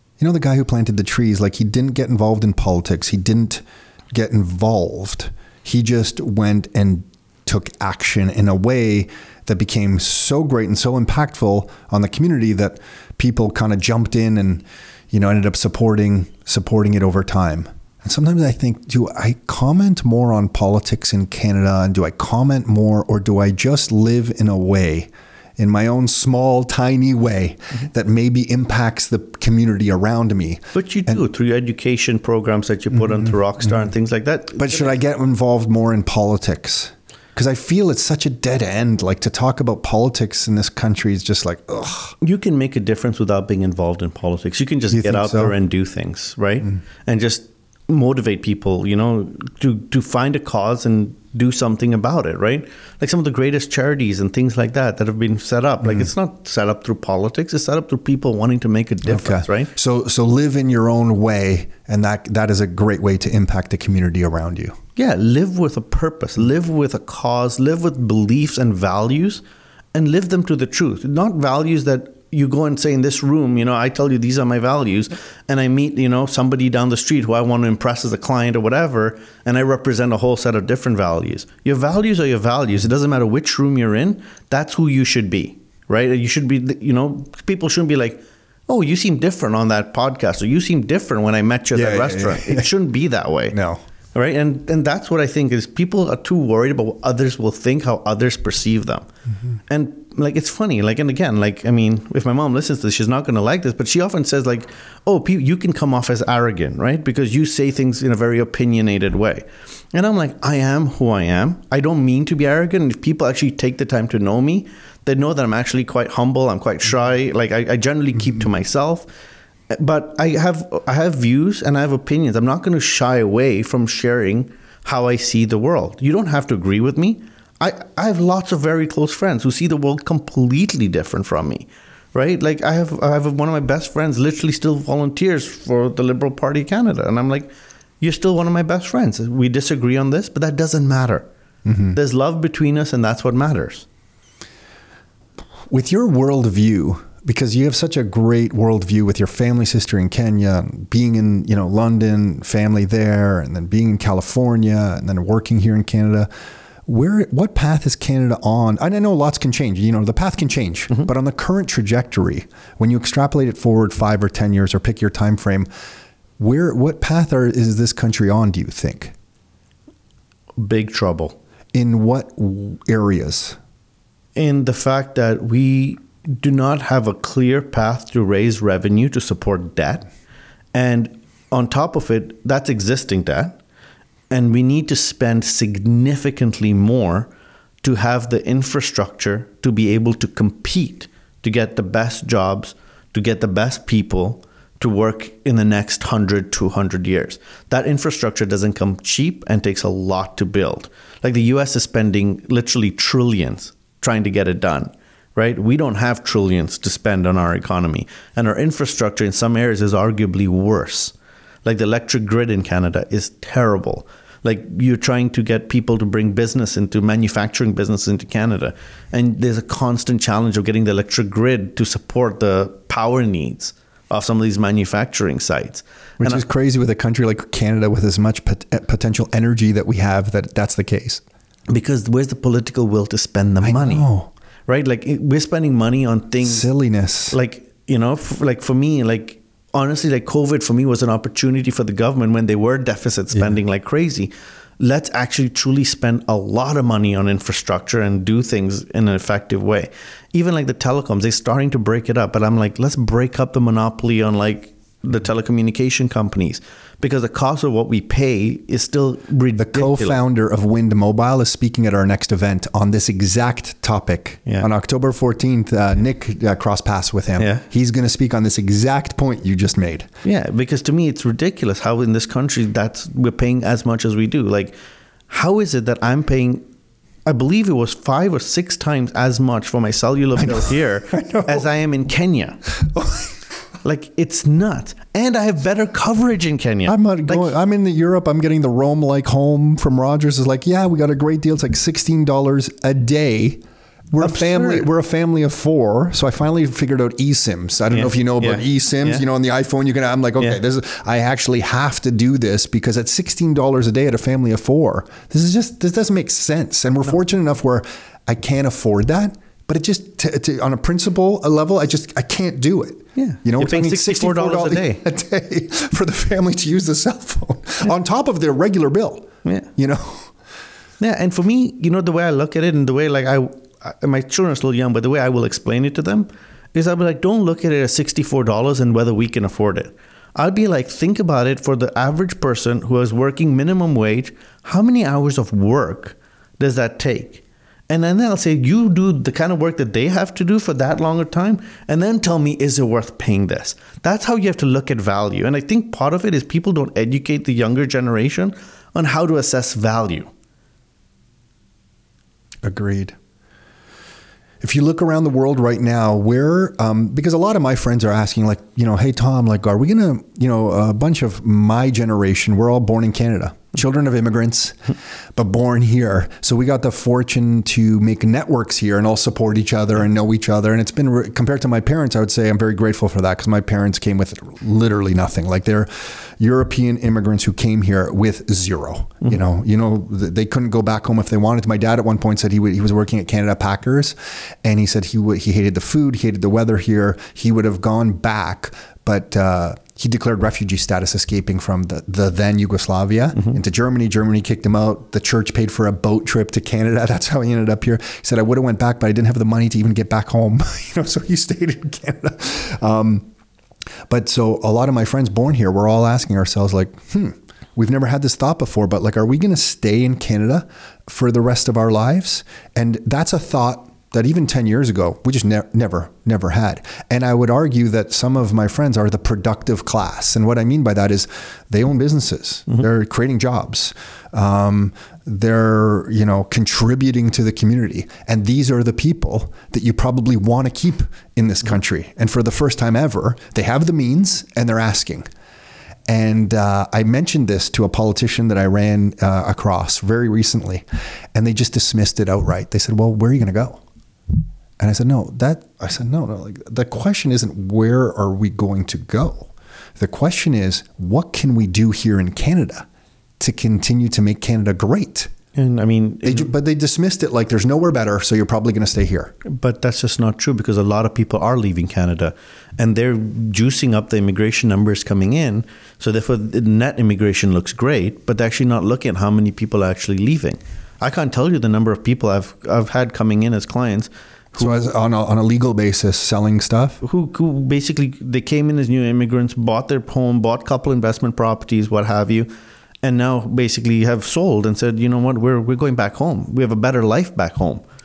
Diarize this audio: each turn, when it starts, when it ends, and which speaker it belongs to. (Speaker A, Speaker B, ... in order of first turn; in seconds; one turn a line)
Speaker A: 0.2-31.2
Speaker B: 30.7-35.0
Speaker A: 32.9-33.9
Speaker A: 34.6-42.1
Speaker B: 42.2-59.7
Speaker A: 44.9-45.5
Speaker A: 55.8-56.1
Speaker A: 59.0-64.8
Speaker B: 65.0-69.4
Speaker B: 69.9-93.6
Speaker A: 91.7-92.7
Speaker A: 93.5-93.8
Speaker B: 94.1-99.1
Speaker B: 99.7-119.1
Speaker B: 119.7-137.5
Speaker B: 138.0-141.3
Speaker A: 141.7-142.0
Speaker B: 141.9-143.8
Speaker A: 145.7-156.3
Speaker A: 156.8-165.7
Speaker A: 166.4-169.1
Speaker B: 170.6-171.3
Speaker A: 171.7-173.6
Speaker B: 174.3-180.1
Speaker B: 180.7-183.6
Speaker B: 184.3-187.3
Speaker B: 187.8-226.4
Speaker A: 226.2-231.2
Speaker B: 231.7-234.0
Speaker A: 233.6-234.3
Speaker B: 234.7-236.7
Speaker A: 236.4-237.4
Speaker B: 237.3-260.2
Speaker A: 259.6-270.1
Speaker B: 267.4-267.6
Speaker B: 270.2-274.7
Speaker B: 275.3-276.6
Speaker B: 277.2-282.6
Speaker A: 280.4-281.6
Speaker A: 282.8-283.3
Speaker B: 283.8-287.5
Speaker A: 286.9-320.3
Speaker B: 294.2-294.9
Speaker B: 297.9-299.2
Speaker B: 313.1-315.0
Speaker B: 321.0-350.3
Speaker A: 352.6-353.1
Speaker A: 354.6-403.3
Speaker A: 404.1-435.3
Speaker A: 436.1-443.8
Speaker A: 444.8-452.9
Speaker A: 453.4-455.3
Speaker B: 455.6-456.5
Speaker A: 456.2-459.3
Speaker B: 459.4-474.9
Speaker A: 474.6-477.0
Speaker B: 477.0-482.5
Speaker B: 483.0-487.8